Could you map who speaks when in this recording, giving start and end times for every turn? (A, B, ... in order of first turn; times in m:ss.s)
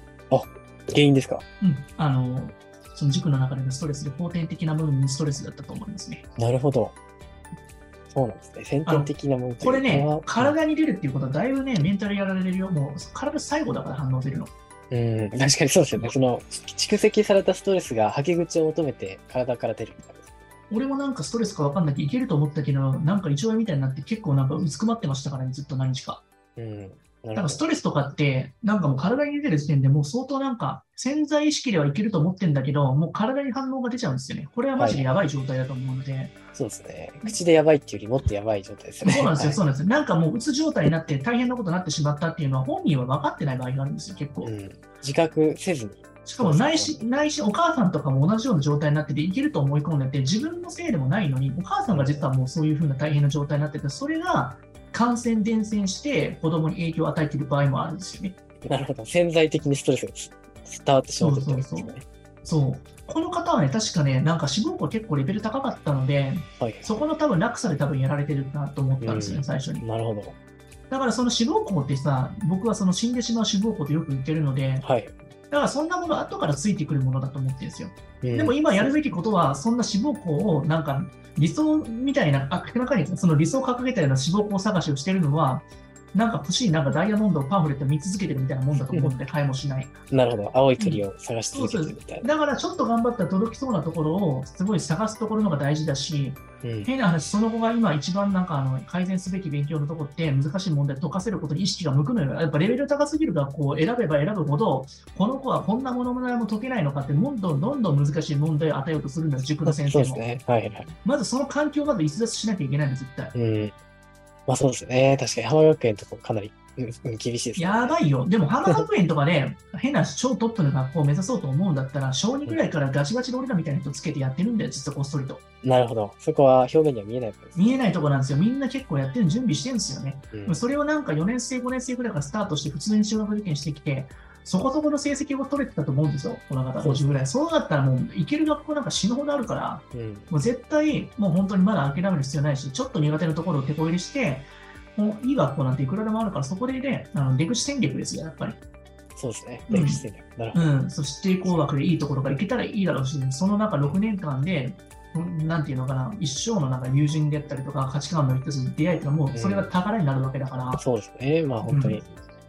0:00.3-0:01.4 A
0:01.6-0:06.2 B
0:06.4-0:06.9 A
0:08.1-0:10.6 A
0:08.8-0:14.5 B
0:14.9-0:20.3 A
0:20.7-0:26.2 B
0:26.6-0:27.7 A
0:27.3-0:36.3 B
0:34.8-0:35.1 A
0:36.5-0:39.6 A
0:39.0-0:44.5 B
0:44.4-0:47.1 A
0:46.2-0:58.4 B
0:51.9-0:52.3 A
0:58.7-1:02.0 A
1:01.2-1:09.8 B
1:06.6-1:06.9 A
1:09.0-1:10.4 A
1:10.9-1:14.9 B
1:14.8-1:15.3 A
1:15.5-1:30.0 B
1:18.2-1:18.9 A
1:28.7-1:29.2 A
1:30.1-1:32.3 A
1:30.8-1:50.2 B
1:36.6-1:36.9 A
1:49.6-1:50.9 A
1:51.0-1:53.3 B
1:53.3-1:53.8 A
1:54.5-1:57.9 A
1:57.6-2:05.4 B
2:05.6-2:07.8 A
2:07.6-2:28.6 B
2:10.3-2:10.6 A
2:16.8-2:17.2 A
2:19.9-2:20.3 A
2:29.2-2:30.7 A
2:29.7-2:30.0 B
2:30.5-2:40.8 B
2:39.3-2:39.7 A
2:40.7-2:42.1 A
2:41.6-2:42.0 B